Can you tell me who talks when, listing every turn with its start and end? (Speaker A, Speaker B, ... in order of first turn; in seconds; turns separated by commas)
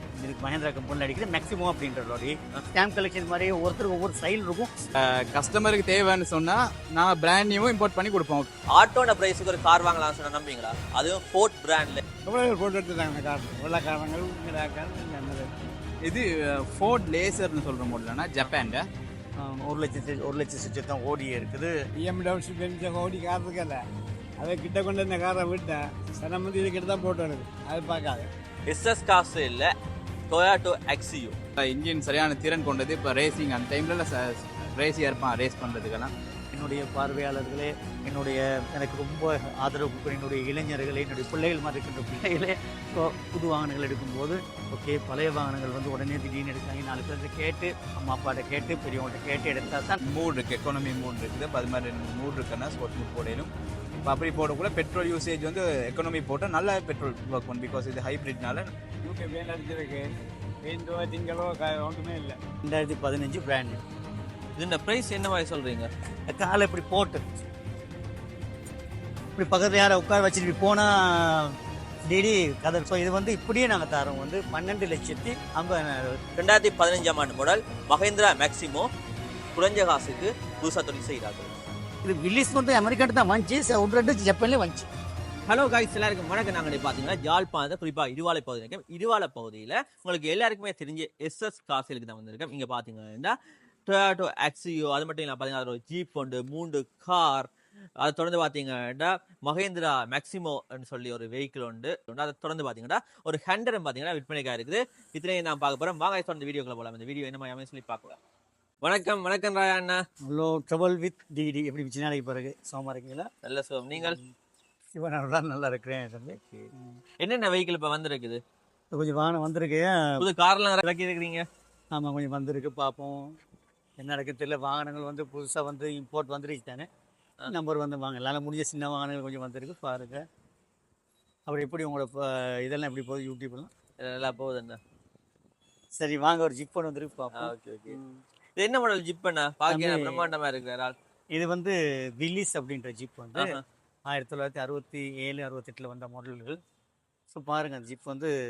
Speaker A: 0.2-4.7, Speaker B: 5.0-8.5, Speaker C: 8.7-12.0, Speaker D: 12.2-15.5, Speaker B: 16.0-18.9, Speaker A: 19.4-21.7, Speaker D: 22.0-23.8, Speaker D: 24.4-28.3, Speaker C: 28.7-29.7, Speaker C: 30.3-31.4, Speaker B: 31.6-36.1, Speaker A: 36.5-50.0, Speaker B: 50.0-53.5, Speaker B: 54.0-58.7, Speaker D: 59.0-60.1, Speaker D: 60.6-62.4, Speaker A: 62.6-63.8, Speaker C: 64.5-65.9, Speaker A: 66.3-67.2, Speaker A: 69.4-76.2, Speaker C: 76.3-78.9, Speaker C: 79.5-81.5, Speaker A: 82.0-84.9, Speaker C: 85.5-97.5, Speaker C: 98.0-108.2, Speaker C: 108.8-110.0, Speaker A: 110.2-113.3, Speaker C: 113.4-114.2, Speaker A: 114.0-114.3, Speaker A: 114.9-117.0, Speaker C: 116.4-118.4, Speaker A: 118.9-120.3, Speaker C: 120.2-121.5, Speaker A: 121.9-123.3, Speaker A: 124.0-126.9, Speaker A: 127.5-130.2, Speaker A: 131.5-133.7, Speaker C: 134.0-134.8, Speaker A: 136.0-138.0, Speaker C: 137.3-140.9, Speaker A: 139.7-140.3, Speaker A: 141.3-146.6, Speaker C: 143.3-143.6, Speaker A: 147.3-148.3